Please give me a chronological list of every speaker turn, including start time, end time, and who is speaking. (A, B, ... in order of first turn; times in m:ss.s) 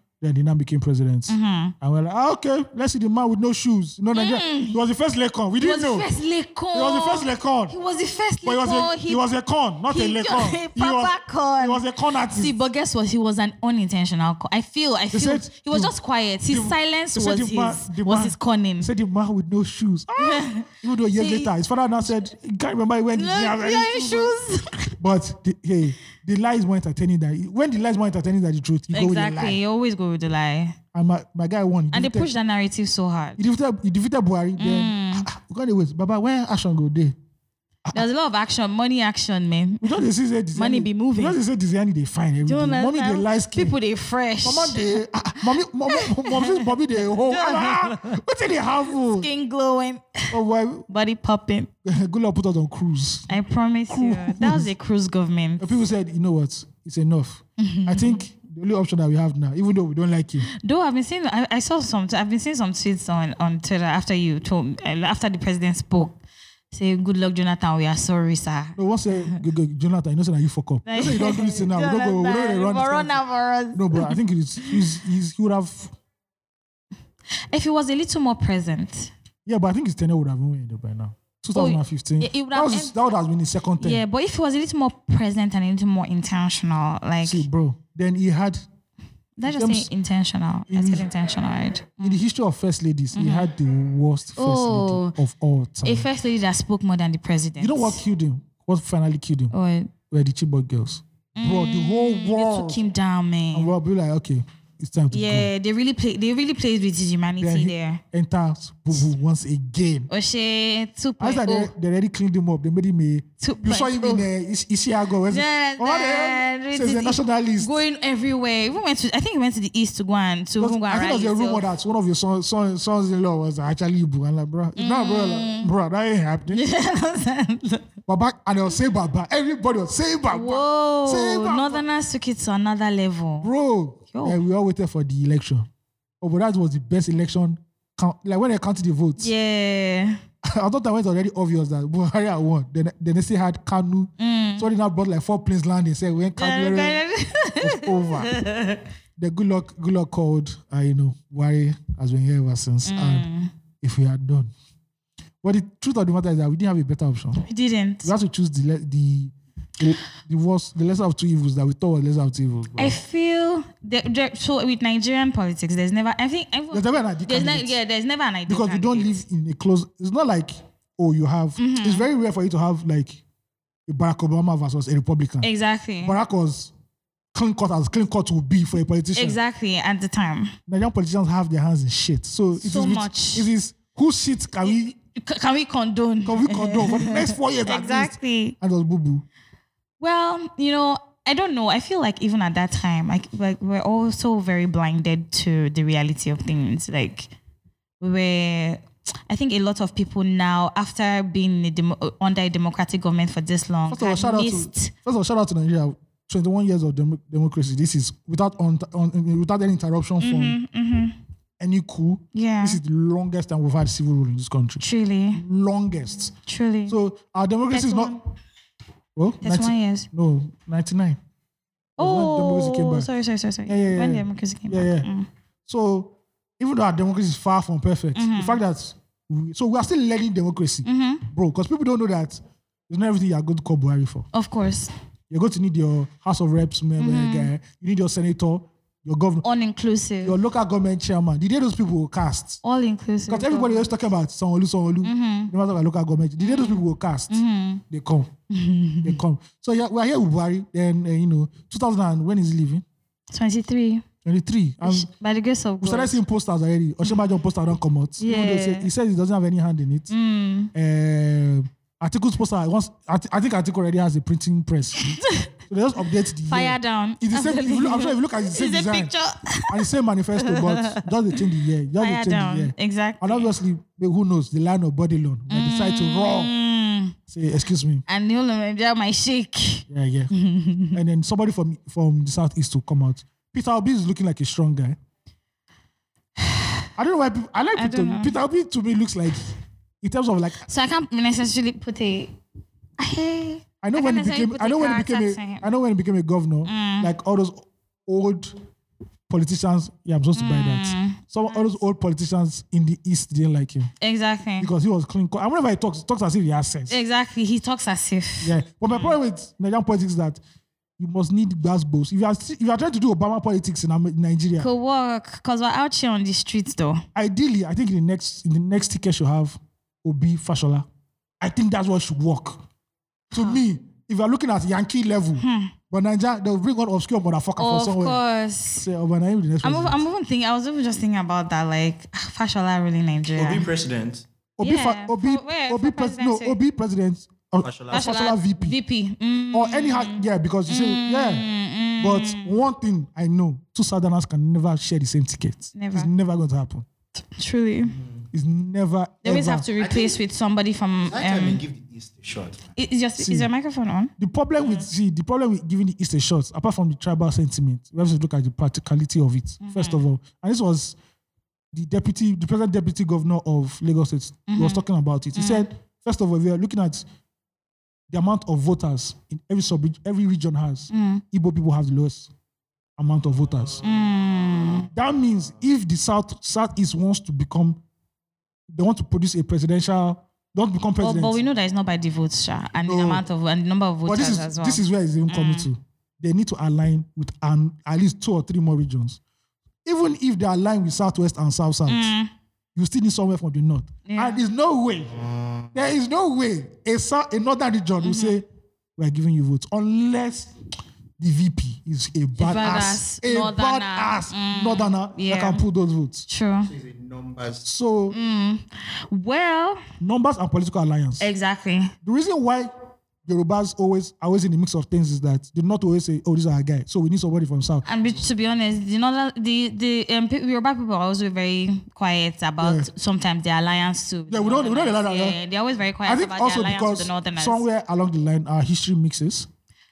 0:00.2-0:06.1 A
0:01.3-0:01.8 B
0:04.1-0:04.8 B
0:05.6-0:09.2 B
0:06.7-0:07.8 A
0:08.4-0:12.6 A
0:09.9-0:18.9 B
0:15.1-0:15.9 A
0:16.5-0:24.4 A
0:20.2-0:21.5 B
0:23.1-0:24.9 B
0:25.0-0:29.6 A
0:28.9-0:30.8 B
0:30.9-0:32.3 A
0:31.9-0:33.4 B
0:33.4-0:37.2 A
0:34.6-0:35.3 B
0:37.9-0:40.0 B
0:39.8-0:43.8 A
0:40.6-0:41.4 B
0:42.4-0:48.2 B
0:44.4-0:49.3 A
0:48.9-0:50.3 B
0:50.3-0:50.9 A
0:50.9-0:51.7 B
0:51.8-0:53.3 A
0:53.3-0:55.8 B
0:53.9-0:54.7 A
0:55.6-1:00.5 A
0:57.6-0:58.2 B
1:00.5-1:06.2 B
1:06.7-1:09.4 B
1:08.8-1:13.2 A
1:10.9-1:14.8 B
1:13.7-1:15.9 A
1:17.5-1:19.1 B
1:19.5-1:24.0 A
1:21.5-1:22.9 B
1:23.8-1:27.4 B
1:27.2-1:28.6 A
1:29.4-1:32.2 B
1:29.4-1:29.9 A
1:30.7-1:31.1 A
1:32.0-1:36.1 A
1:33.1-1:33.5 B
1:34.4-1:35.2 B
1:35.8-1:38.0 B
1:37.6-1:39.5 A
1:39.5-1:39.9 B
1:40.1-1:42.8 A
1:41.4-1:43.7 B
1:43.5-1:45.5 A
1:45.1-1:48.0 B
1:47.4-1:50.1 A
1:50.1-1:51.7 B
1:51.2-1:57.8 A
1:53.4-1:54.3 B
1:55.3-2:01.7 B
2:00.6-2:06.6 A
2:04.8-2:05.7 B
2:06.5-2:07.9 B
2:08.1-2:11.8 A
2:10.3-2:13.5 B
2:13.4-2:15.7 A
2:14.1-2:14.4 B
2:16.2-2:19.3 A
2:19.2-2:20.2 B
2:20.4-2:27.0 A
2:24.2-2:24.7 B
2:26.4-2:28.8 B
2:27.6-2:28.4 A
2:29.2-2:33.3 A
2:32.8-2:33.5 B
2:33.8-2:34.5 A
2:35.4-2:37.4 A
2:37.4-2:38.1 B
2:38.0-2:43.0 A
2:42.8-2:49.2 B
2:46.7-2:47.8 A
2:48.5-2:53.2 A
2:51.6-2:52.1 B
2:53.9-2:55.5 A
2:55.4-2:56.2 B
2:56.0-2:56.7 A
2:57.3-2:59.4 A
2:59.2-3:00.6 B
3:00.7-3:05.0 A
3:02.6-3:03.5 B
3:04.6-3:08.6 B
3:06.3-3:09.2 A
3:10.0-3:17.3 B
3:18.0-3:24.9 B
3:23.9-3:30.6 A
3:30.2-3:31.2 B
3:31.6-3:36.3 A
3:32.3-3:32.8 B
3:34.8-3:35.4 B
3:36.5-3:37.0 B
3:36.9-3:38.2 A
3:37.7-3:38.2 B
3:39.2-3:41.2 A
3:39.4-3:40.1 B
3:42.0-3:43.1 A
3:42.0-3:45.3 B
3:43.7-3:45.1 A
3:45.7-3:54.3 A
3:48.2-3:48.6 B
3:50.8-3:51.2 B
3:54.3-3:54.9 B
3:55.3-3:59.4 A
3:57.0-3:57.5 B
3:59.4-4:00.4 B
4:00.2-4:02.6 A
4:02.6-4:03.9 B
4:03.3-4:08.3 A
4:05.0-4:05.5 B
4:06.4-4:07.8 B
4:08.5-4:09.2 B
4:09.0-4:12.8 A
4:13.3-4:14.0 B
4:14.2-4:15.1 A
4:14.8-4:16.2 B
4:15.8-4:20.1 A
4:18.2-4:18.9 B
4:20.1-4:20.7 B
4:20.7-4:29.1 A
4:25.1-4:25.5 B
4:26.5-4:29.8 B
4:29.7-4:36.5 A
4:30.4-4:31.4 B
4:32.0-4:33.5 B
4:35.5-4:37.2 B
4:37.3-4:38.0 A
4:38.1-4:41.0 B
4:39.9-4:40.3 A
4:40.9-4:45.0 A
4:46.4-4:46.9 B
4:47.0-4:49.5 A
4:47.8-4:48.4 B
4:50.0-4:50.7 A
4:50.6-4:52.4 B
4:53.0-4:55.7 B
4:53.8-4:58.6 A
4:56.6-4:57.1 B
4:59.3-5:03.9 A
5:00.4-5:01.8 B
5:04.0-5:04.7 B
5:04.6-5:07.0 A
5:06.9-5:09.2 B
5:08.4-5:10.4 A
5:11.0-5:14.7 A
5:14.6-5:17.0 B
5:17.2-5:20.9 A
5:21.4-5:22.6 A
5:23.3-5:23.6 B
5:23.3-5:28.2 A
5:25.4-5:25.7 B
5:27.6-5:28.9 B
5:28.8-5:30.0 A
5:29.6-5:33.7 B
5:33.3-5:34.2 C
5:34.6-5:38.8 A
5:34.6-5:36.6 B
5:37.6-5:38.0 C
5:37.9-5:42.5 B
5:39.5-5:41.5 A
5:42.0-5:46.9 A
5:45.8-5:46.1 B
5:47.3-5:48.0 B
5:48.0-5:48.2 C
5:48.3-5:49.7 A
5:49.2-5:51.6 B
5:49.8-5:50.2 C
5:51.0-5:52.6 C
5:52.8-5:54.9 B
5:53.2-5:53.5 A
5:54.2-6:01.0 A
5:59.6-6:00.0 B
6:01.7-6:07.0 A
6:04.5-6:04.8 B
6:05.4-6:05.7 B
6:08.1-6:12.3 A
6:10.9-6:11.2 B
6:13.0-6:13.8 A
6:13.8-6:14.9 B
6:14.9-6:17.8 A
6:18.7-6:21.4 A
6:21.0-6:25.7 B
6:22.8-6:23.2 A
6:24.1-6:29.2 A
6:29.8-6:32.1 A
6:31.9-6:32.3 B
6:32.8-6:35.1 A
6:34.1-6:34.4 B
6:35.7-6:38.4 A
6:38.0-6:38.4 B
6:39.0-6:40.5 A
6:41.2-6:46.3 A
6:42.4-6:45.6 B
6:46.3-6:46.7 B
6:46.7-6:47.7 C
6:47.6-6:48.2 A
6:48.1-6:49.8 B
6:50.0-6:51.3 A
6:51.2-6:51.9 B
6:52.0-6:52.7 A
6:53.2-6:57.8 A
6:57.8-7:07.6 B
7:02.6-7:02.9 A
7:04.3-7:05.4 A
7:06.0-7:09.5 A